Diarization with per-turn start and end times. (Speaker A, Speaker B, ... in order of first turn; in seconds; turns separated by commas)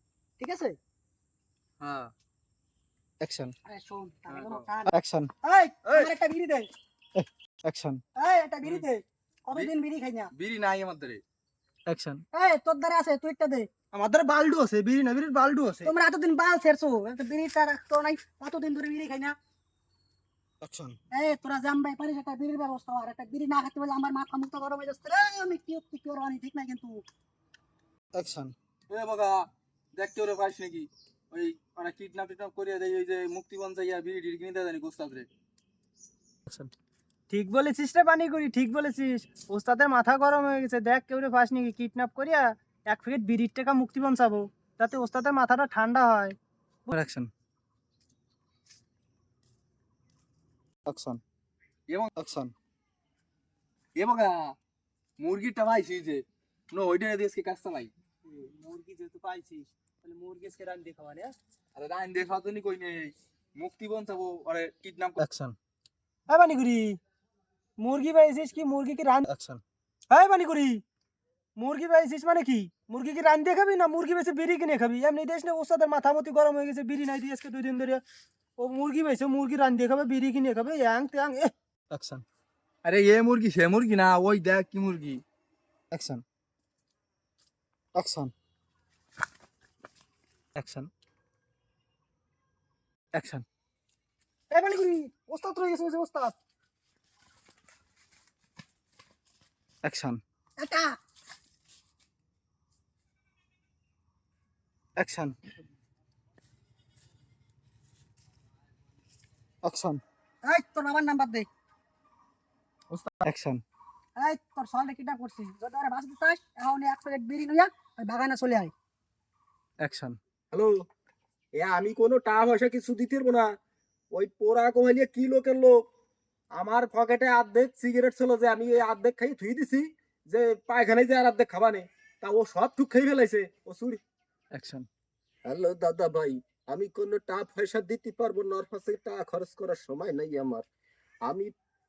Speaker A: 0.4-0.8, Speaker B: 1.8-2.1, Speaker C: 3.2-3.5, Speaker A: 3.6-6.7, Speaker B: 4.3-4.7, Speaker C: 4.9-5.3, Speaker C: 7.2-8.0, Speaker A: 8.2-10.3, Speaker B: 10.3-11.2, Speaker C: 11.9-12.2, Speaker A: 12.3-13.7, Speaker D: 13.9-15.9, Speaker A: 15.8-19.4, Speaker C: 20.6-21.0, Speaker A: 21.1-27.0, Speaker C: 28.1-28.6, Speaker B: 28.9-35.3, Speaker D: 37.3-46.4, Speaker C: 46.9-47.3, Speaker C: 50.9-51.2, Speaker C: 52.2-52.5, Speaker B: 54.0-54.5, Speaker B: 55.2-57.9, Speaker D: 58.2-61.4, Speaker B: 61.8-65.2, Speaker C: 65.2-65.6, Speaker D: 66.3-67.0, Speaker D: 67.8-69.3, Speaker C: 69.3-69.6, Speaker D: 70.1-70.8, Speaker D: 71.6-78.0, Speaker D: 78.6-81.5, Speaker C: 81.9-82.2, Speaker B: 82.8-85.2, Speaker C: 85.9-86.2, Speaker C: 88.0-88.3, Speaker C: 90.6-90.9, Speaker C: 93.2-93.5, Speaker D: 94.5-96.3, Speaker C: 99.8-100.2, Speaker A: 100.6-101.0, Speaker C: 105.0-105.4, Speaker C: 109.6-110.0, Speaker A: 110.4-111.5, Speaker C: 113.2-113.6, Speaker A: 114.2-118.7, Speaker C: 119.8-120.2, Speaker E: 120.5-120.8, Speaker E: 121.5-123.5, Speaker E: 124.1-125.9, Speaker E: 126.5-134.0, Speaker C: 134.5-134.9, Speaker E: 135.4-140.7, Speaker E: 141.2-141.5